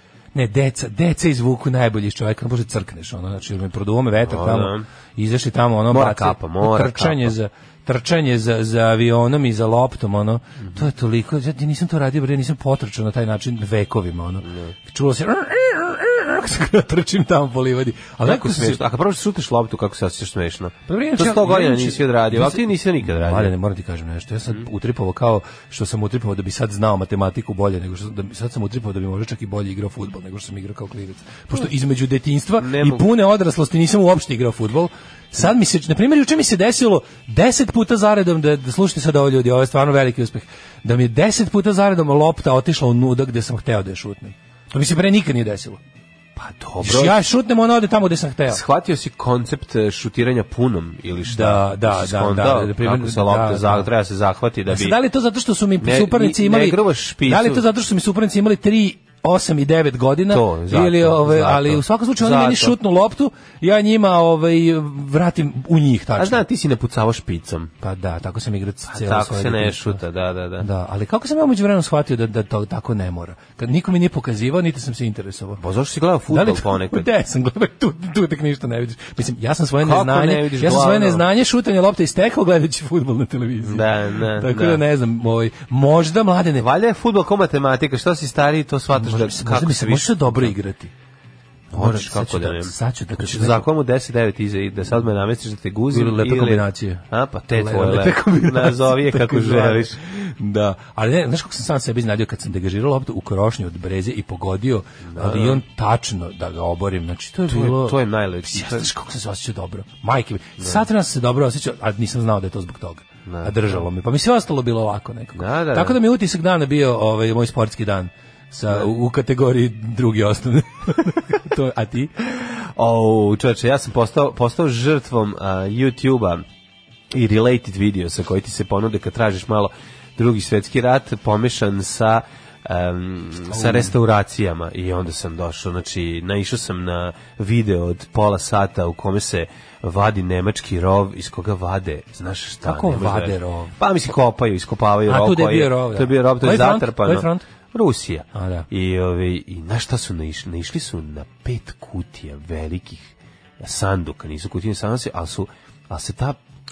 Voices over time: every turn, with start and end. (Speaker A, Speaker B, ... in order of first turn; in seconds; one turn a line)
Speaker A: 0.3-18.8
Speaker B: 4.2-4.8
Speaker B: 5.9-7.3
Speaker B: 14.4-14.7
Speaker B: 18.2-23.5
Speaker A: 20.9-45.8
Speaker B: 32.6-33.1
Speaker B: 46.4-47.2
Speaker A: 46.8-48.6
Speaker B: 48.5-55.0
Speaker A: 51.3-53.9
Speaker A: 54.7-66.4
Speaker B: 55.8-57.6
Speaker B: 60.3-62.8
Speaker B: 66.2-67.7
Speaker A: 67.8-70.0
Speaker B: 68.9-70.7
Speaker A: 70.6-75.6
Speaker B: 75.6-77.1
Speaker A: 76.3-86.7
Speaker B: 79.8-81.2
Speaker B: 83.6-84.8
Speaker B: 86.6-90.5
Speaker A: 88.9-90.9
Speaker A: 91.7-93.7
Speaker B: 91.7-100.0
Speaker A: 95.9-122.1
Speaker B: 105.1-105.6
Speaker B: 107.5-108.9
Speaker B: 113.2-113.8
Speaker B: 115.3-116.0
Speaker B: 122.4-126.4
Speaker B: 127.1-156.4
Speaker A: 133.5-133.9
Speaker A: 142.6-143.7
Speaker A: 145.1-147.4
Speaker A: 148.3-148.7